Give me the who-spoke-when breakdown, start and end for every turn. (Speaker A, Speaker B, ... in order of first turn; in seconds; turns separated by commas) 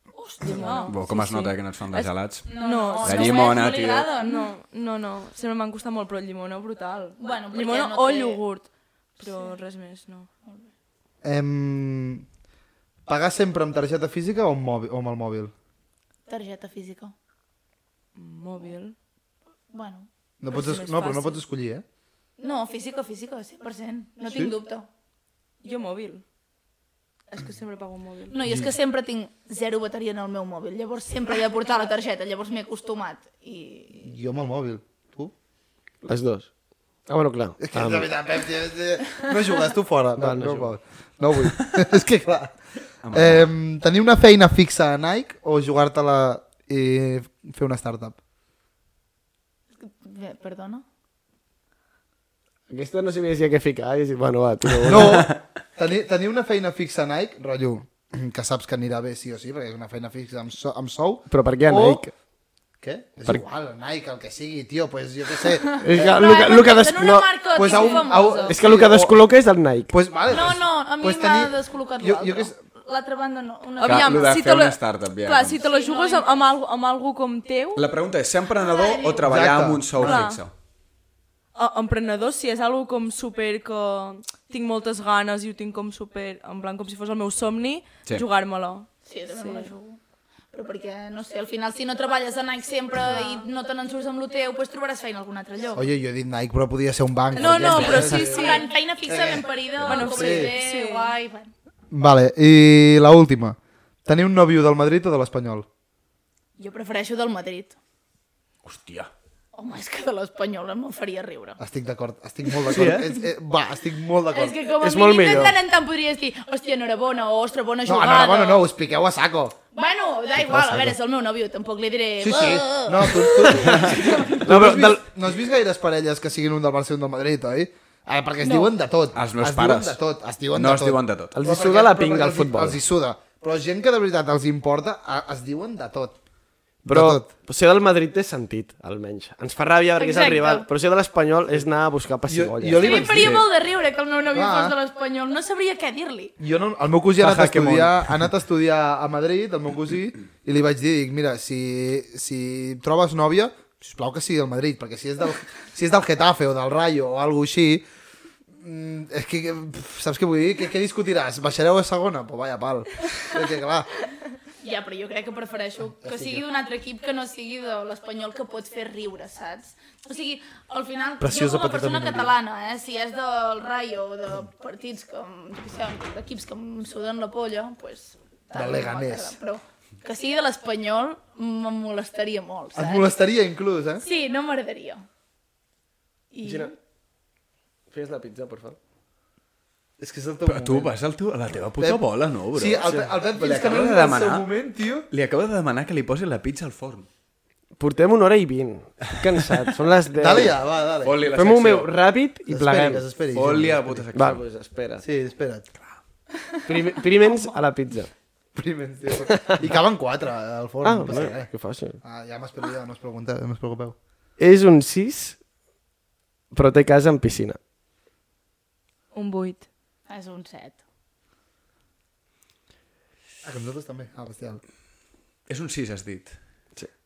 Speaker A: 0.1-1.0, Speaker B: 0.4-10.3, Speaker C: 0.9-2.5, Speaker A: 2.5-4.5, Speaker C: 3.0-4.1, Speaker A: 7.2-8.4, Speaker A: 9.2-9.6, Speaker D: 11.2-12.2, Speaker D: 13.1-15.5, Speaker A: 16.3-17.1, Speaker B: 18.1-18.9, Speaker A: 19.7-20.1, Speaker D: 20.4-21.9, Speaker B: 20.5-21.4, Speaker A: 22.4-24.9, Speaker D: 24.3-24.5, Speaker B: 25.6-26.2, Speaker B: 27.3-28.4, Speaker A: 28.3-34.1, Speaker D: 34.0-35.3, Speaker E: 36.0-36.5, Speaker E: 37.1-38.1, Speaker D: 37.6-42.6, Speaker E: 40.2-40.7, Speaker C: 43.0-43.5, Speaker D: 43.1-48.2, Speaker A: 49.8-50.9, Speaker E: 52.7-55.3, Speaker D: 54.8-62.1, Speaker E: 61.3-62.1, Speaker D: 62.8-66.2, Speaker A: 65.7-68.6, Speaker E: 65.8-67.3, Speaker D: 67.5-69.2, Speaker B: 67.7-68.0, Speaker E: 68.4-69.9, Speaker D: 69.9-72.6, Speaker A: 70.3-74.3, Speaker C: 73.8-75.6, Speaker B: 73.8-77.9, Speaker A: 75.5-76.3, Speaker C: 77.8-80.5, Speaker A: 78.5-79.3, Speaker D: 79.2-80.3, Speaker B: 80.0-80.4, Speaker B: 81.5-89.7, Speaker A: 89.0-90.0, Speaker A: 90.5-95.9, Speaker B: 93.0-93.5, Speaker D: 95.8-100.5, Speaker B: 97.3-98.8, Speaker A: 97.4-101.5, Speaker C: 97.7-98.2, Speaker B: 99.8-101.1, Speaker D: 101.9-105.7, Speaker A: 106.6-107.8, Speaker C: 108.7-109.1, Speaker A: 109.5-111.6, Speaker D: 111.6-114.6, Speaker E: 112.7-113.0, Speaker A: 114.3-118.7, Speaker E: 114.8-115.6, Speaker D: 117.9-119.6, Speaker A: 119.7-124.4, Speaker D: 120.4-121.0, Speaker D: 122.2-136.2, Speaker E: 123.4-125.1, Speaker A: 128.4-128.7, Speaker C: 129.1-130.0, Speaker C: 130.5-131.3, Speaker E: 131.3-132.8, Speaker E: 136.8-143.0, Speaker D: 136.9-137.3, Speaker A: 140.0-140.7, Speaker D: 142.3-143.5, Speaker A: 142.8-146.3, Speaker C: 143.1-143.5, Speaker D: 144.3-144.8, Speaker D: 146.4-157.8, Speaker C: 147.2-148.2, Speaker D: 158.6-163.9, Speaker A: 164.6-183.1, Speaker D: 166.0-166.4, Speaker D: 171.2-172.3, Speaker D: 178.5-179.4, Speaker D: 182.8-184.0, Speaker A: 184.0-185.1, Speaker A: 186.3-186.7, Speaker E: 186.4-186.7, Speaker E: 187.9-188.8, Speaker D: 190.0-190.9, Speaker C: 190.5-194.5, Speaker D: 191.8-195.1, Speaker C: 195.1-197.1, Speaker E: 197.8-200.6, Speaker D: 200.1-201.2, Speaker C: 201.0-201.9, Speaker E: 201.3-203.1, Speaker D: 202.5-204.0, Speaker C: 203.3-204.4, Speaker E: 204.1-205.1, Speaker D: 205.0-205.7, Speaker A: 206.4-207.6, Speaker E: 206.7-208.1, Speaker D: 208.6-211.5, Speaker E: 209.3-209.6, Speaker E: 210.8-212.0, Speaker D: 212.0-214.0, Speaker E: 214.4-215.4, Speaker E: 216.5-217.6, Speaker B: 219.1-219.7, Speaker A: 220.1-220.8, Speaker D: 223.4-224.6, Speaker C: 225.5-226.4